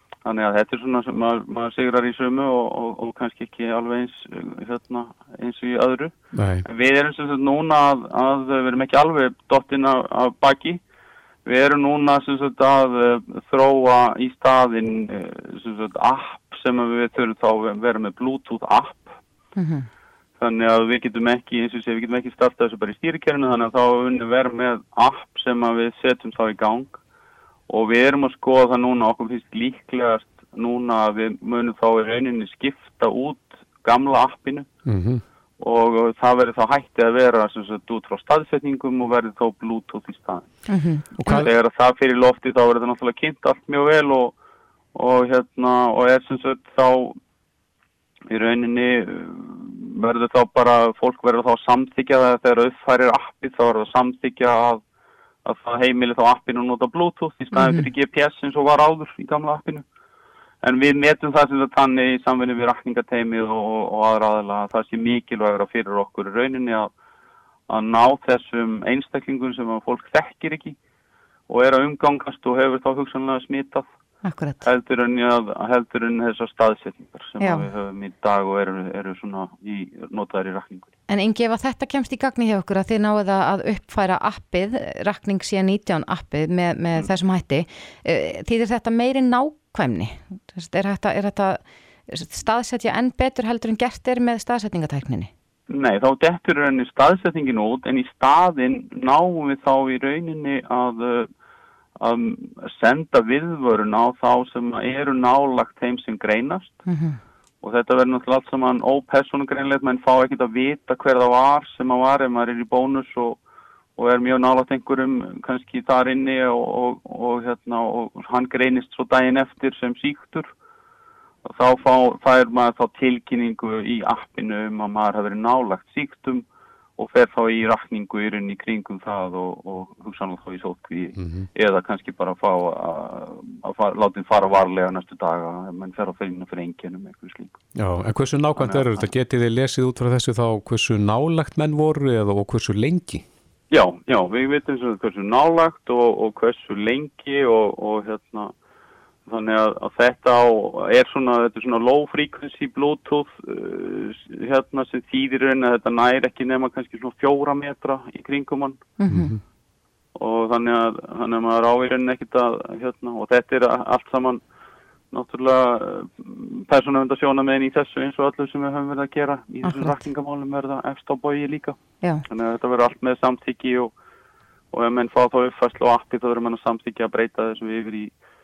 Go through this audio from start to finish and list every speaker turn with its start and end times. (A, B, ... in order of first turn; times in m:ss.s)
0:00.2-0:10.8 A
0:06.3-0:06.6 B
0:11.5-0:19.1 A
0:19.6-0:19.9 C
0:20.4-0:27.0 A
0:27.7-0:34.7 A
0:34.8-0:35.2 B
0:35.6-0:40.5 A
0:40.7-0:41.5 C
0:41.2-0:41.5 B
0:41.4-0:44.3 A
0:45.0-0:47.2 A
0:48.3-0:54.8 A
0:55.4-0:59.8 A
0:57.5-0:57.9 C
1:00.6-1:06.9 A
1:07.7-1:10.8 A
1:11.5-1:13.9 A
1:14.2-1:14.7 C
1:14.6-1:20.9 A
1:17.4-1:17.7 C
1:21.1-1:35.3 C
1:35.7-1:41.3 A
1:42.0-1:46.8 A
1:46.9-1:47.2 C
1:47.6-1:53.4 A
1:54.0-2:00.5 A
2:01.5-2:06.4 A
2:07.0-2:17.6 A
2:11.2-2:11.5 B
2:17.8-2:23.2 B
2:18.6-2:19.1 A
2:23.7-2:28.5 A
2:29.3-2:38.8 A
2:39.0-2:39.4 C
2:39.1-2:39.4 B
2:40.2-2:44.4 A
2:45.1-2:51.8 A
2:49.6-2:50.0 C
2:52.3-2:53.9 A
2:54.7-2:58.1 A